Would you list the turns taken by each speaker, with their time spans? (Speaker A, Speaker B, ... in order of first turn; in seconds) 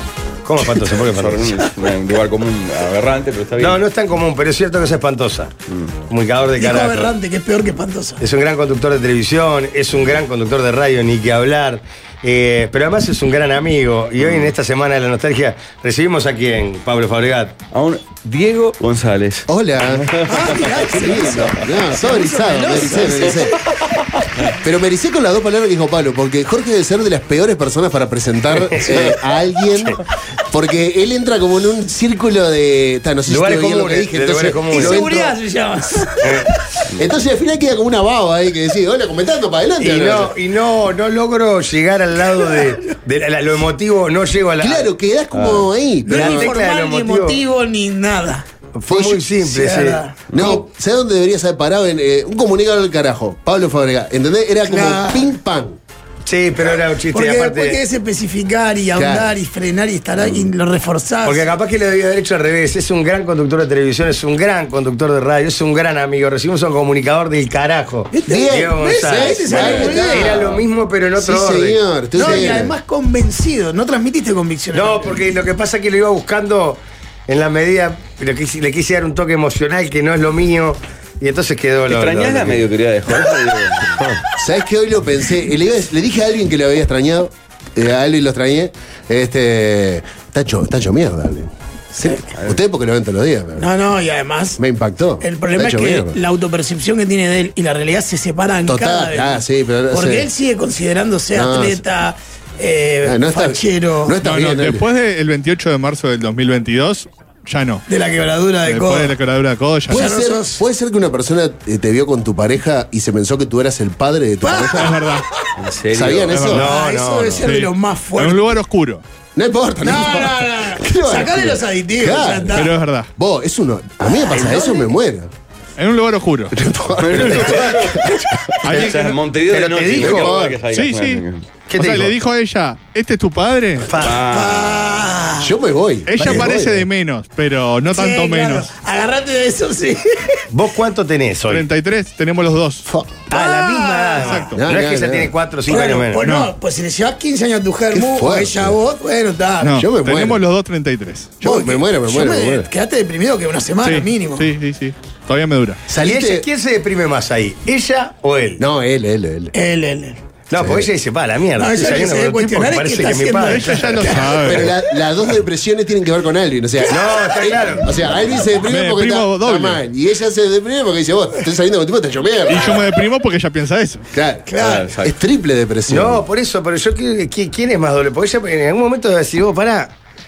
Speaker A: 0.5-1.6, 3.6-5.5, 6.1-7.1, 8.2-17.6, 28.6-29.1, 33.3-35.2, 36.2-36.5, 39.8-47.4, 48.8-50.0, 56.3-57.8, 61.2-72.5, 74.7-82.7, 116.5-117.5, 128.7-130.3, 131.7-132.2, 133.9-134.2, 140.5-141.7, 143.3-146.2, 156.0-158.6, 160.5-164.2, 166.9-167.9, 175.9-179.9
Speaker B: 1.0-3.8, 5.7-6.0, 14.2-14.5, 17.7-20.8, 81.9-84.1, 92.3-92.6, 115.6-116.4, 127.0-131.4, 134.0-135.1, 174.6-175.1
Speaker C: 6.6-8.2, 20.2-23.4, 34.7-36.5, 46.0-48.5, 49.5-50.6, 54.6-55.2, 57.1-61.4, 68.4-70.3, 72.2-75.2, 92.0-92.2, 93.6-94.6, 95.2-104.2, 107.9-109.2, 109.9-110.6, 114.4-115.2, 116.5-118.5, 119.8-122.7, 124.1-124.9, 134.2-135.5, 136.2-136.5, 137.9-140.1, 143.3-144.6, 145.7-149.8, 151.4-154.5, 159.5-160.2, 161.6-164.7, 174.5-174.8
Speaker D: 19.5-23.6, 24.5-35.3, 37.0-40.3, 44.6-46.5, 48.9-49.2, 50.3-55.8, 59.0-59.4, 68.1-70.5, 71.2-72.7, 84.3-93.7, 94.6-96.2, 98.7-100.3, 101.3-101.8, 103.0-104.8, 109.9-115.0, 115.9-116.7, 119.3-125.3, 126.5-128.3, 130.0-130.6, 135.4-136.9, 142.9-143.3, 144.5-145.4, 147.9-148.8, 149.7-150.4, 151.4-152.7, 155.9-156.5, 158.6-159.5, 160.6-160.9, 164.4-172.8, 174.1-176.2
Speaker E: 104.2-107.8, 108.7-110.1, 114.8-115.2, 116.3-116.7, 117.4-119.0, 122.5-123.1, 125.8-126.6, 128.6-129.1, 130.7-133.9, 136.1-138.7, 141.5-142.9, 144.2-144.6, 146.2-146.5, 149.6-151.4, 153.8-155.9, 163.5-164.7, 168.7-169.8, 172.5-174.1